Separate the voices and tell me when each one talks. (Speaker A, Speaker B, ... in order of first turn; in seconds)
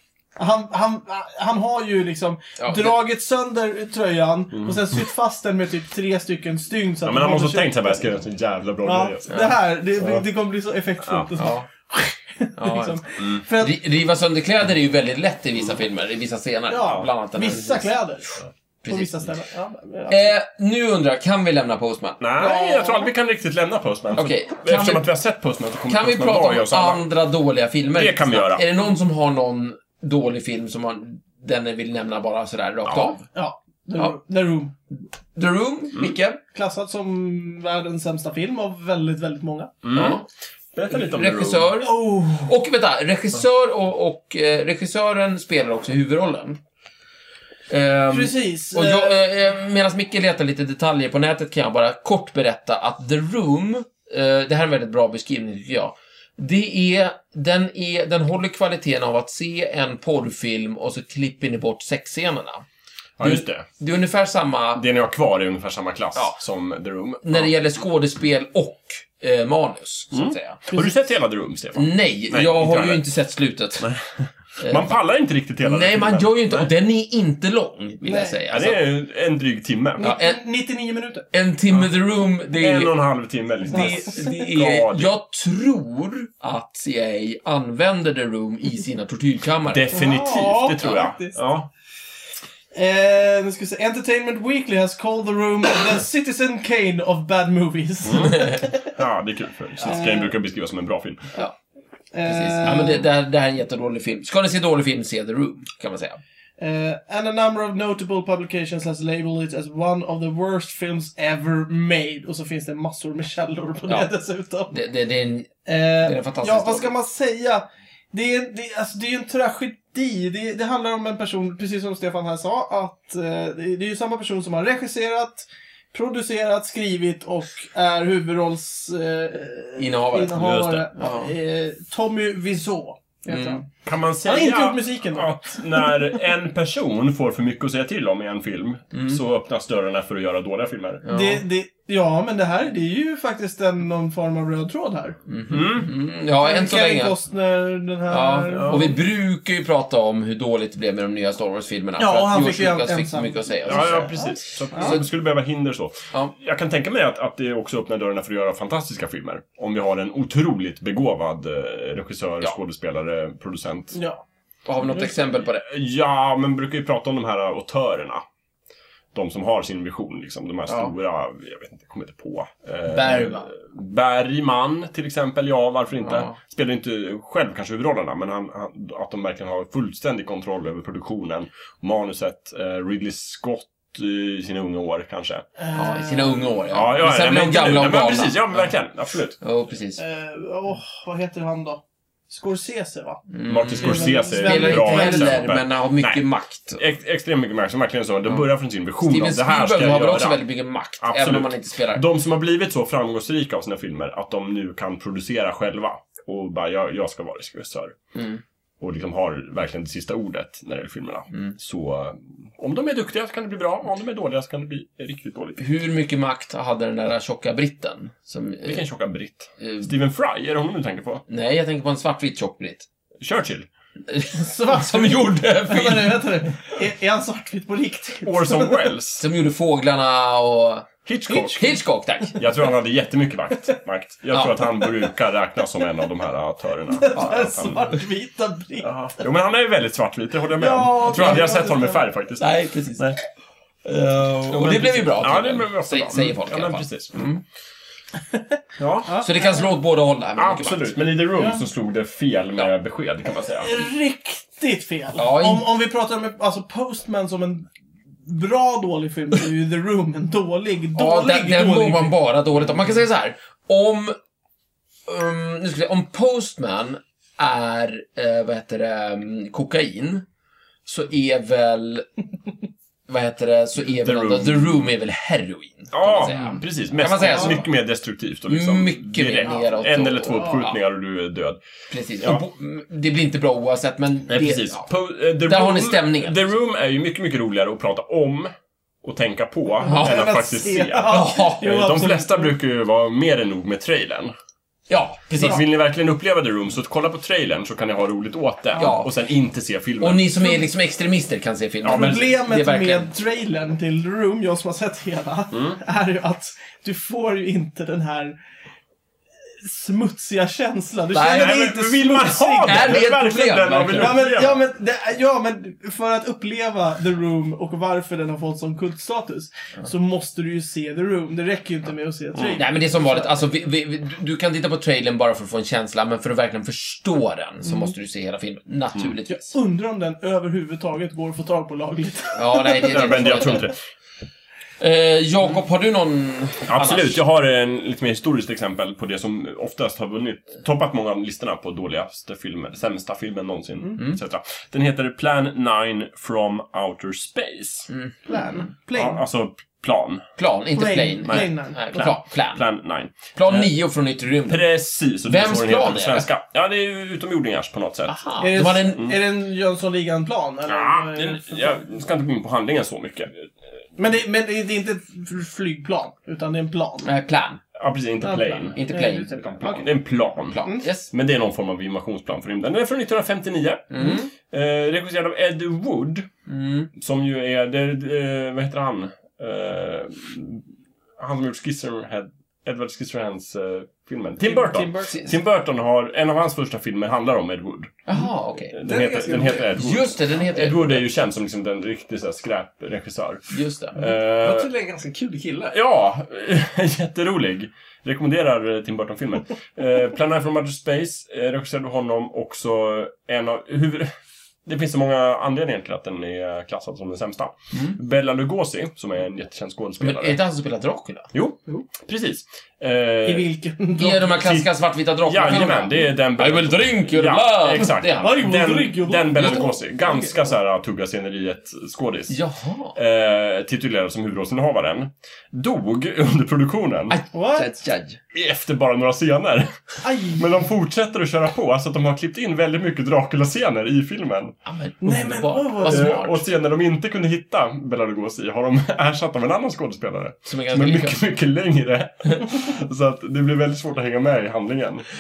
Speaker A: 0.4-8.1, 8.8-13.8, 16.7-18.3, 18.9-20.4, 22.4-23.1, 33.3-34.7, 36.5-39.8, 41.8-42.5, 48.1-49.2, 78.0-78.4, 80.0-81.3, 83.7-84.5, 89.9-91.4, 92.7-99.0, 99.8-100.3, 102.1-103.1, 106.6-114.8, 115.7-133.7, 134.2-136.1, 141.1-145.2, 146.4-149.0, 152.0-155.0, 163.9-164.2, 185.6-186.6, 190.0-195.5, 224.4-228.8, 236.9-239.3, 240.6-242.1, 249.1-249.7, 251.3-251.6, 253.6-257.7, 258.2-262.1, 277.2-277.5, 279.4-279.7, 289.8-292.6, 301.8-308.4, 309.6-313.1, 313.9-323.4, 327.6-327.9, 329.3-333.6, 348.3-349.2, 350.8-351.9, 358.4-361.8, 364.0-367.1, 368.2-369.9, 370.6-370.9, 384.4-385.2, 413.2-414.3, 418.1-420.5, 427.3-427.7, 430.0-430.5, 435.0-436.2
Speaker B: 2.6-3.0, 11.4-11.7, 12.6-13.0, 13.5-17.9, 18.8-19.2, 20.1-22.3, 24.1-25.1, 25.9-33.2, 34.9-36.4, 39.9-40.3, 40.9-46.6, 47.7-62.6, 63.2-64.8, 67.2-70.6, 71.8-73.9, 74.6-74.9, 75.6-78.8, 80.0-80.4, 81.3-83.0, 83.7-89.9, 102.2-106.2, 114.7-115.5, 116.0-116.9, 129.8-131.3, 133.3-133.6, 138.9-139.2, 141.1-141.4, 145.3-147.1, 148.1-154.2, 154.8-155.0, 164.7-165.6, 172.9-173.5, 176.0-176.4, 185.7-188.7, 189.4-190.0, 193.3-196.8, 199.0-202.0, 208.1-208.4, 215.6-218.8, 219.6-219.9, 221.3-222.9, 224.1-226.4, 229.2-232.4, 234.3-234.6, 241.1-241.5, 242.4-243.2, 243.9-247.4, 249.2-250.9, 255.2-255.6, 260.9-264.1, 265.1-270.2, 270.9-272.1, 273.1-277.6, 278.5-280.8, 281.9-284.9, 285.4-286.4, 289.9-290.2, 291.1-291.7, 294.9-295.6, 298.8-299.1, 300.0-303.1, 311.1-311.6, 312.6-314.2, 322.6-329.5, 332.4-333.7, 334.8-337.2, 347.9-348.7, 350.4-352.6, 353.3-354.6, 355.2-356.3, 358.1-359.1, 367.0-367.6, 368.8-369.3, 370.5-371.1, 373.9-374.3, 376.5-376.9, 388.1-388.8, 389.7-391.1, 393.5-394.1, 407.7-408.0, 410.0-411.3, 414.0-418.5, 422.3-422.9, 427.1-427.9, 434.6-436.4, 440.5-441.2
Speaker C: 4.5-5.0, 7.0-10.2, 11.0-11.3, 22.2-27.0, 27.9-28.6, 32.9-33.2, 39.8-40.2, 40.7-41.7, 63.2-63.7, 64.8-67.5, 70.1-73.0, 73.8-76.7, 78.5-80.1, 82.5-85.1, 89.7-91.7, 98.0-101.2, 130.4-130.8, 133.8-141.0, 145.5-145.9, 148.5-148.9, 153.7-164.0, 165.0-168.2, 169.1-185.4, 186.7-189.4, 193.5-196.2, 196.8-200.4, 201.0-207.9, 208.8-215.6, 218.6-221.2, 223.2-223.7, 228.2-229.2, 231.1-231.8, 232.3-237.8, 238.8-243.2, 244.4-247.2, 248.8-249.1, 250.4-253.7, 273.8-274.9, 275.9-281.6, 284.3-288.5, 289.0-294.3, 295.4-300.3, 305.5-305.8, 311.3-314.6, 322.4-322.6, 332.8-333.8, 336.6-347.9, 348.9-350.2, 351.2-353.7, 354.5-358.1, 360.6-363.5, 367.8-368.8, 369.4-376.3, 376.9-380.6, 381.2-387.9, 388.7-394.7, 395.7-404.1, 404.6-410.4, 411.3-413.4, 414.2-414.7, 415.2-422.4, 422.9-427.1, 428.3-429.7, 430.4-434.5, 435.9-445.1
Speaker D: 388.8-389.8, 394.3-395.8, 427.6-428.2